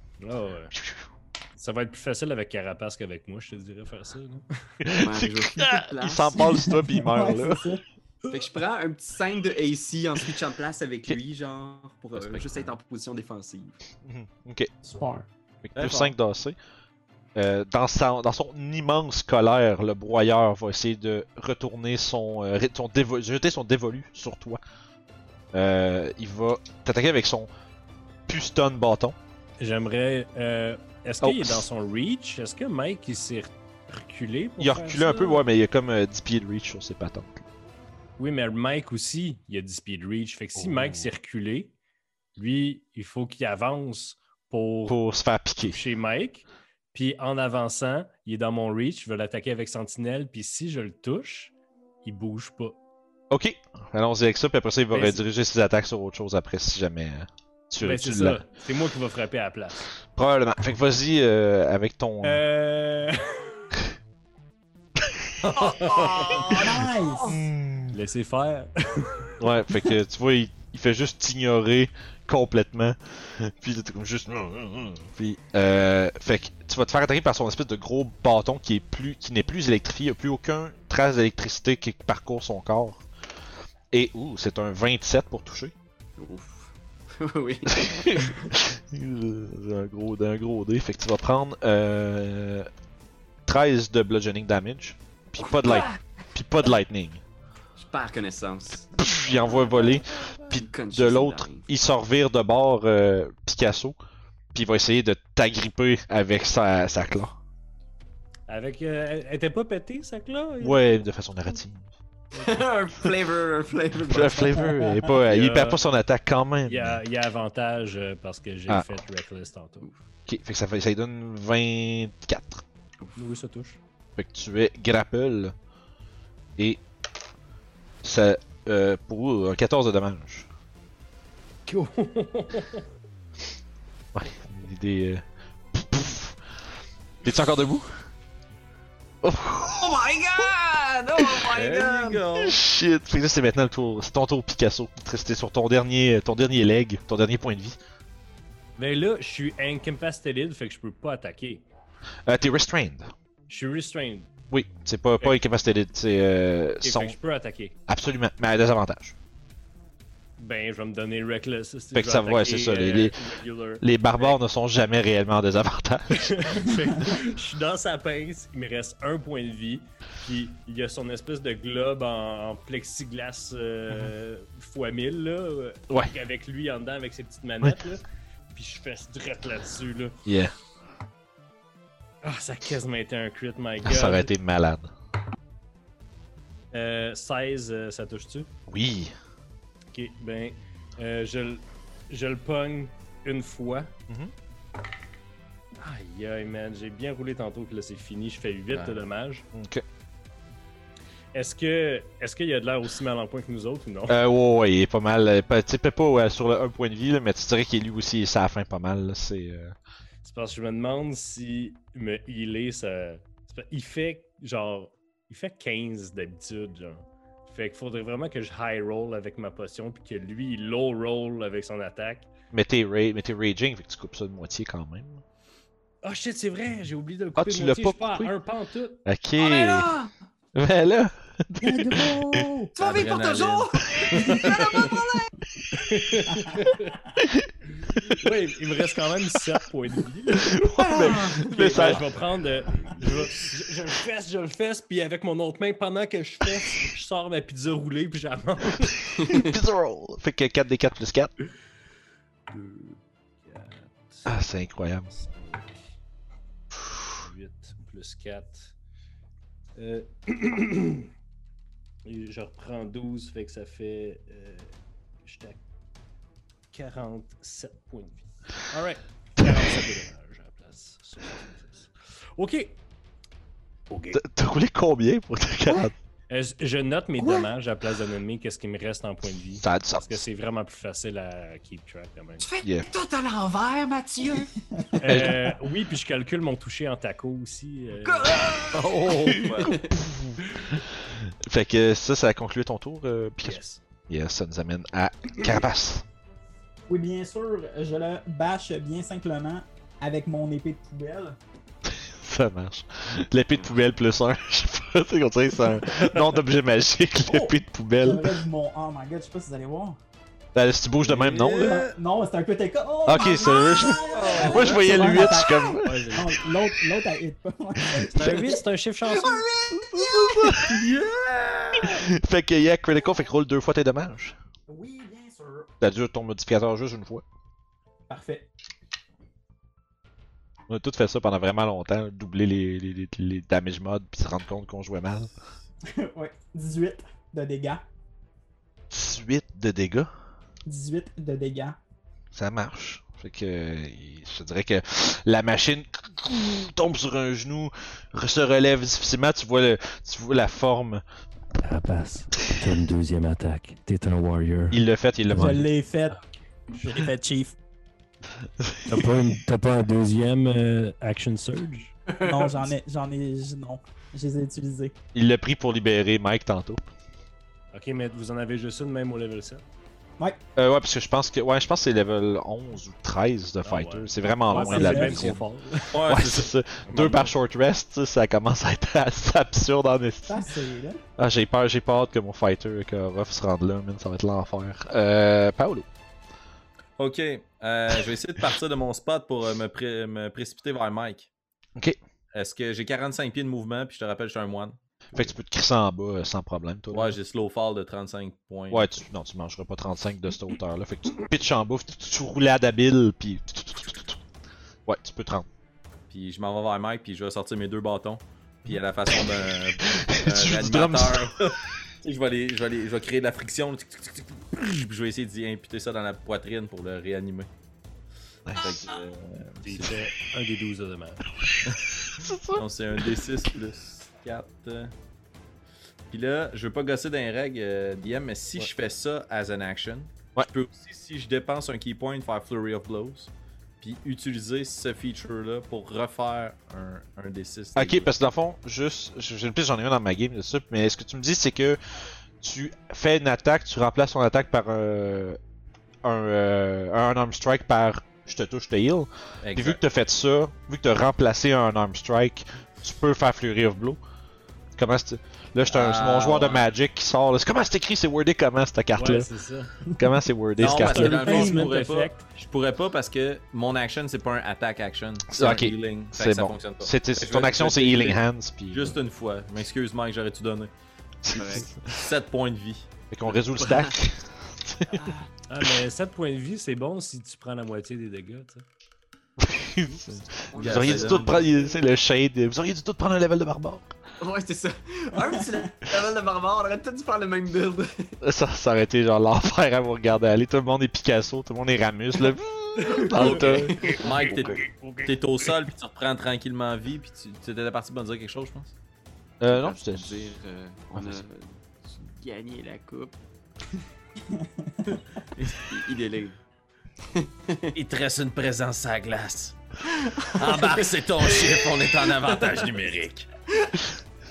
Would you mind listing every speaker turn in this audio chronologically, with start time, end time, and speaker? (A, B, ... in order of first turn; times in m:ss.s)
0:00.2-0:00.7 A
0:00.7-0:01.0 B
0:01.6-0:04.9 A
0:04.8-0:07.7 B
0:05.0-0:06.5 C
0:06.4-0:07.8 D
0:08.3-0:13.7 C
0:12.1-0:12.7 E
0:14.0-0:14.7 B
0:14.8-0:15.2 D
0:15.6-0:16.6 B
0:15.8-0:16.1 E
0:17.3-0:24.6 B
0:25.5-0:27.5 B
0:28.3-0:29.2 B
0:29.6-0:35.4 A
0:31.2-0:31.7 B
0:34.6-0:37.4 B
0:38.2-0:41.7 A
0:40.6-0:41.1 B
0:42.4-0:45.0 A
0:44.8-0:45.8 B
0:45.7-0:52.8 A
0:53.3-0:58.4 B
0:54.9-0:55.2 A
0:57.8-0:59.9 A
1:00.1-1:02.4 B
1:02.2-1:03.6 A
1:05.0-1:05.3 B
1:05.4-1:07.4 C
1:05.5-1:06.4 E
1:06.4-1:07.4 D
1:07.3-1:08.0 B
1:07.9-1:09.3 A
1:09.4-1:23.0 B
1:23.9-1:25.7 B
1:26.2-1:28.5 C
1:27.7-1:32.7 B
1:33.4-1:37.2 B
1:35.4-1:36.0 C
1:37.8-1:41.7 C
1:39.0-1:44.0 B
1:44.5-1:47.4 B
1:48.5-1:50.8 A
1:50.6-1:51.9 B
1:52.3-1:54.8 C
1:54.0-1:57.0 B
1:55.1-1:55.8 A
1:56.6-1:59.9 A
2:00.3-2:02.6 B
2:03.2-2:03.8 A
2:04.2-2:05.5 B
2:08.0-2:10.5 B
2:11.6-2:12.8 A
2:14.1-2:16.4 B
2:17.2-2:17.9 B
2:19.2-2:20.2 B
2:19.7-2:22.2 C
2:21.2-2:21.5 B
2:21.5-2:22.6 E
2:22.3-2:27.8 B
2:28.8-2:31.6 A
2:32.3-2:33.1 B
2:33.5-2:34.3 A
2:34.5-2:37.2 B
2:36.8-2:37.7 A
2:37.9-2:39.1 B
2:40.4-2:44.4 A
2:41.9-2:43.2 B
2:43.8-2:46.9 B
2:46.1-3:00.2 A
3:00.2-3:00.5 B
3:02.2-3:04.3 A
3:03.8-3:04.9 B
3:06.7-3:08.5 A
3:08.7-3:09.1 B
3:09.9-3:13.9 A
3:15.8-3:19.5 A
3:18.7-3:19.0 E
3:19.5-3:19.8 B
3:21.3-3:24.2 A
3:24.1-3:29.8 B
3:30.2-3:42.3 A
3:42.5-3:45.2 B
3:46.0-3:49.0 A
3:47.4-3:48.3 B
3:49.0-3:49.9 B
3:49.4-3:50.1 C
3:50.5-3:52.5 B
3:51.6-3:52.7 D
3:52.8-3:55.3 C
3:52.8-3:54.9 E
3:55.8-3:57.0 A
3:57.2-3:58.3 B
3:58.1-4:09.2 A
4:00.3-4:02.1 B
4:09.2-4:09.5 C
4:09.3-4:11.3 B
4:12.5-4:14.4 A
4:14.2-4:15.1 B
4:15.1-4:15.9 A
4:17.1-4:18.7 A
4:19.8-4:21.1 A
4:22.0-4:25.6 A
4:26.7-4:32.8 A
4:33.9-4:34.2 A
4:34.1-4:35.9 B
4:36.3-4:42.5 A
4:39.6-4:40.2 B
4:42.4-4:44.5 C
4:45.0-4:48.5 A
4:45.0-4:45.4 B
4:48.0-4:50.0 C
4:48.8-4:56.0 B
4:49.0-4:49.8 E
4:53.4-4:53.8 A
4:56.9-5:01.4 D
5:01.9-5:08.4 B
5:07.3-5:10.0 D
5:10.5-5:11.8 B
5:11.0-5:11.9 E
5:11.4-5:18.5 D
5:13.0-5:16.3 B
5:14.1-5:15.2 E
5:14.2-5:14.7 C
5:18.1-5:19.4 A
5:19.1-5:20.9 C
5:19.7-5:20.8 B
5:20.6-5:21.9 E
5:21.8-5:24.4 B
5:24.7-5:25.7 D
5:25.8-5:27.2 B
5:28.1-5:28.5 D
5:30.7-5:35.3 B
5:35.9-5:37.8 D
5:38.9-5:40.1 B
5:40.7-5:41.8 D
5:42.3-5:51.0 B
5:51.6-5:54.8 A
5:54.7-5:55.7 B
5:55.3-5:56.2 D
5:56.8-5:57.6 D
5:58.6-5:59.1 B
5:58.9-6:02.0 A
6:02.1-6:02.7 C
6:02.2-6:04.9 D
6:05.1-6:06.8 B
6:07.7-6:09.6 A
6:10.6-6:15.4 B
6:13.6-6:16.0 A
6:14.5-6:15.4 D
6:15.9-6:17.3 E
6:15.9-6:20.5 B
6:20.3-6:21.0 D
6:21.2-6:25.9 B
6:27.0-6:31.3 E
6:32.3-6:35.2 E
6:35.1-6:37.2 B
6:36.9-6:38.9 E
6:38.7-6:44.2 B
6:44.8-6:45.5 B
6:46.1-6:57.5 E
6:49.9-6:51.3 B
6:58.4-6:58.9 B
6:58.5-7:00.0 E
6:59.6-7:01.2 A
7:01.6-7:01.9 E
7:02.1-7:02.6 B
7:02.5-7:04.9 E
7:06.1-7:18.1 E
7:17.8-7:21.8 B
7:22.4-7:25.4 B
7:26.0-7:34.0 B
7:29.4-7:29.8 E
7:34.8-7:39.3 B
7:35.7-7:36.7 E
7:39.0-7:39.7 A
7:40.0-7:41.2 B
7:40.6-7:50.7 E
7:40.7-7:42.3 A
7:40.9-7:41.7 D
7:45.3-7:49.0 B
7:51.2-7:51.8 B
7:51.3-7:51.7 C
7:51.8-7:52.9 E
7:53.1-7:55.1 B
7:53.5-7:54.0 C
7:54.9-7:55.3 C
7:55.5-7:58.6 A
7:59.4-8:03.9 B
8:00.5-8:01.8 C
8:00.6-8:01.5 E
8:04.2-8:08.2 C
8:08.2-8:13.8 B
8:12.8-8:14.3 C
8:13.0-8:15.5 A
8:13.3-8:18.7 E
8:19.4-8:20.3 B
8:19.4-8:23.2 C
8:24.3-8:24.8 D
8:25.4-8:25.7 E
8:25.6-8:26.4 C
8:27.1-8:27.7 C
8:27.7-8:29.6 E
8:29.9-8:32.6 C
8:30.2-8:33.3 E